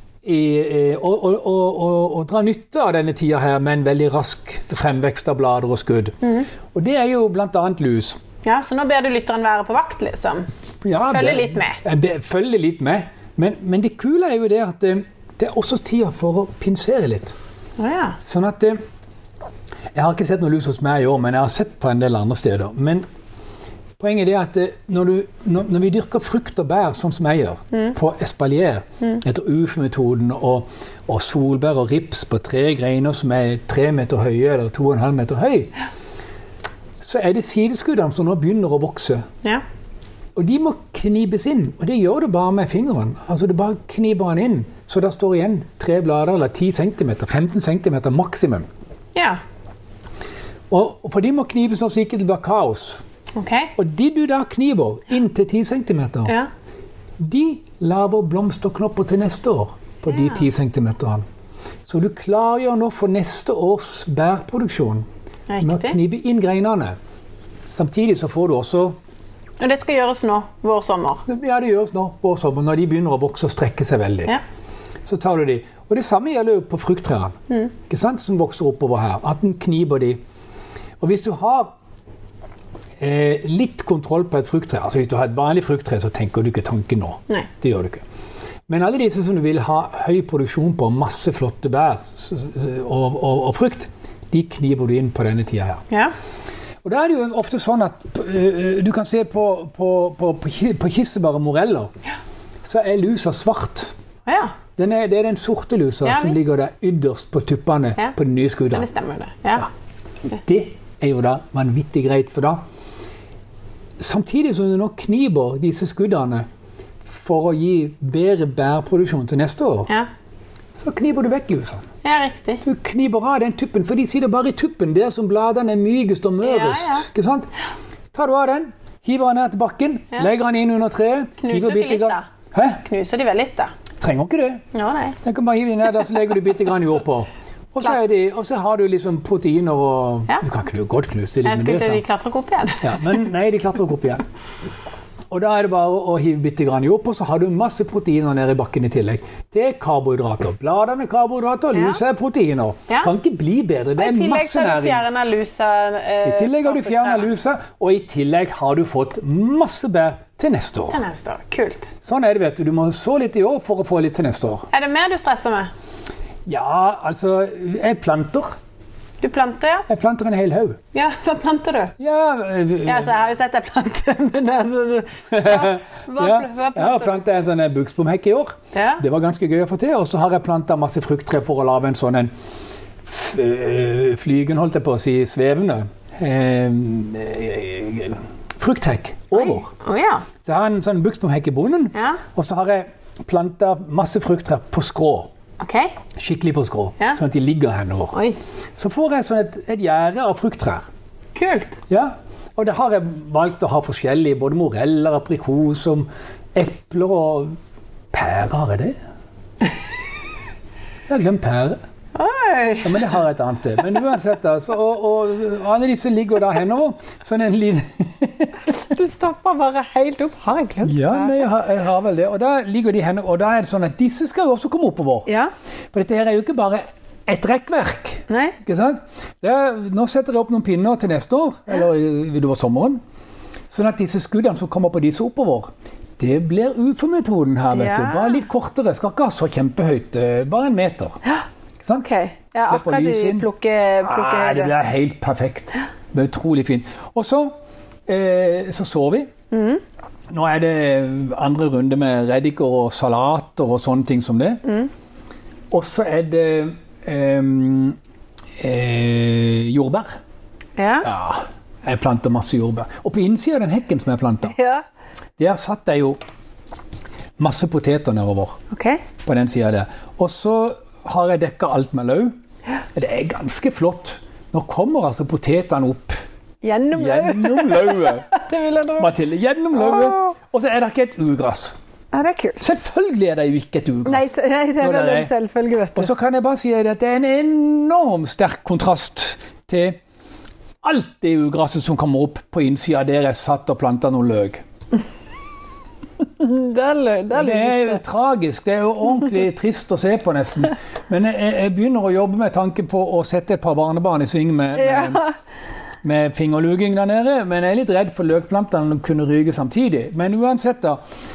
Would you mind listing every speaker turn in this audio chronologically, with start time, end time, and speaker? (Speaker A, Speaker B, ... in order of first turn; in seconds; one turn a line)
Speaker A: 0.2-8.2
Speaker B: 8.4-10.5
Speaker A: 10.8-17.3
Speaker B: 11.1-11.8
Speaker B: 17.8-18.2
Speaker A: 18.2-18.8
Speaker A: 19.9-23.0
Speaker A: 24.0-35.7
Speaker A: 37.0-39.2
Speaker A: 40.3-48.7
Speaker B: 49.1-49.4
Speaker A: 50.7-53.0
Speaker B: 53.4-53.7
Speaker A: 53.8-56.4
Speaker A: 57.2-61.2
Speaker A: 61.9-65.0
Speaker B: 65.5-66.0
Speaker A: 65.6-67.0
Speaker A: 67.7-69.0
Speaker B: 69.6-71.2
Speaker A: 71.3-74.3
Speaker A: 75.0-77.3
Speaker A: 77.9-80.2
Speaker A: 81.0-81.7
Speaker A: 83.0-88.0
Speaker A: 88.7-95.8
Speaker A: 96.8-101.9
Speaker A: 102.6-103.9
Speaker B: 104.2-104.5
Speaker A: 104.8-108.9
Speaker B: 106.0-106.5
Speaker B: 108.7-109.7
Speaker A: 110.3-112.6
Speaker A: 114.0-116.5
Speaker A: 117.0-119.9
Speaker A: 120.8-121.8
Speaker B: 122.0-122.6
Speaker A: 122.6-127.5
Speaker B: 126.4-127.0
Speaker A: 128.1-132.8
Speaker B: 131.4-132.2
Speaker B: 132.8-133.7
Speaker A: 134.0-134.6
Speaker B: 134.7-135.2
Speaker A: 135.2-142.0
Speaker B: 141.4-143.2
Speaker A: 142.8-144.2
Speaker A: 145.3-155.0
Speaker B: 151.7-152.0
Speaker B: 154.0-157.3
Speaker A: 156.2-161.0
Speaker B: 160.9-161.9
Speaker A: 162.0-164.7
Speaker B: 164.7-165.7
Speaker A: 166.5-168.5
Speaker B: 169.2-169.8
Speaker A: 169.9-170.8
Speaker B: 170.9-171.9
Speaker A: 172.0-173.2
Speaker B: 172.8-177.2
Speaker A: 175.3-182.3
Speaker B: 178.7-179.0
Speaker A: 183.0-189.7
Speaker B: 189.3-190.3
Speaker A: 190.4-195.3
Speaker B: 191.9-192.2
Speaker B: 195.6-195.9
Speaker A: 196.2-198.1
Speaker B: 198.1-198.4
Speaker A: 198.8-200.9
Speaker B: 201.3-201.8
Speaker A: 201.9-207.5
Speaker A: 208.1-208.9
Speaker A: 211.1-211.8
Speaker B: 212.1-213.2
Speaker A: 212.8-218.7
Speaker B: 218.7-221.4
Speaker A: 220.8-225.3
Speaker A: 225.9-233.0
Speaker B: 228.3-228.6
Speaker A: 233.7-241.2
Speaker B: 237.7-238.4
Speaker A: 241.8-242.1
Speaker B: 242.0-244.7
Speaker A: 242.6-243.4
Speaker A: 244.1-247.5
Speaker A: 248.1-249.3
Speaker B: 249.5-249.8
Speaker A: 250.3-254.6
Speaker B: 254.6-254.9
Speaker A: 255.7-258.0
Speaker A: 258.6-260.1
Speaker B: 260.8-261.1
Speaker A: 261.0-264.5
Speaker B: 264.5-264.8
Speaker A: 265.4-266.2
Speaker A: 267.4-268.6
Speaker B: 268.7-269.0
Speaker A: 269.2-272.3
Speaker A: 272.9-276.2
Speaker B: 276.6-279.1
Speaker A: 276.9-278.3
Speaker A: 279.0-281.7
Speaker B: 279.7-280.3
Speaker B: 282.1-282.6
Speaker A: 282.6-285.3
Speaker B: 284.0-286.1
Speaker A: 285.9-290.0
Speaker A: 290.8-294.6
Speaker B: 296.2-298.0
Speaker A: 297.3-305.2
Speaker B: 304.8-305.3
Speaker A: 306.0-311.0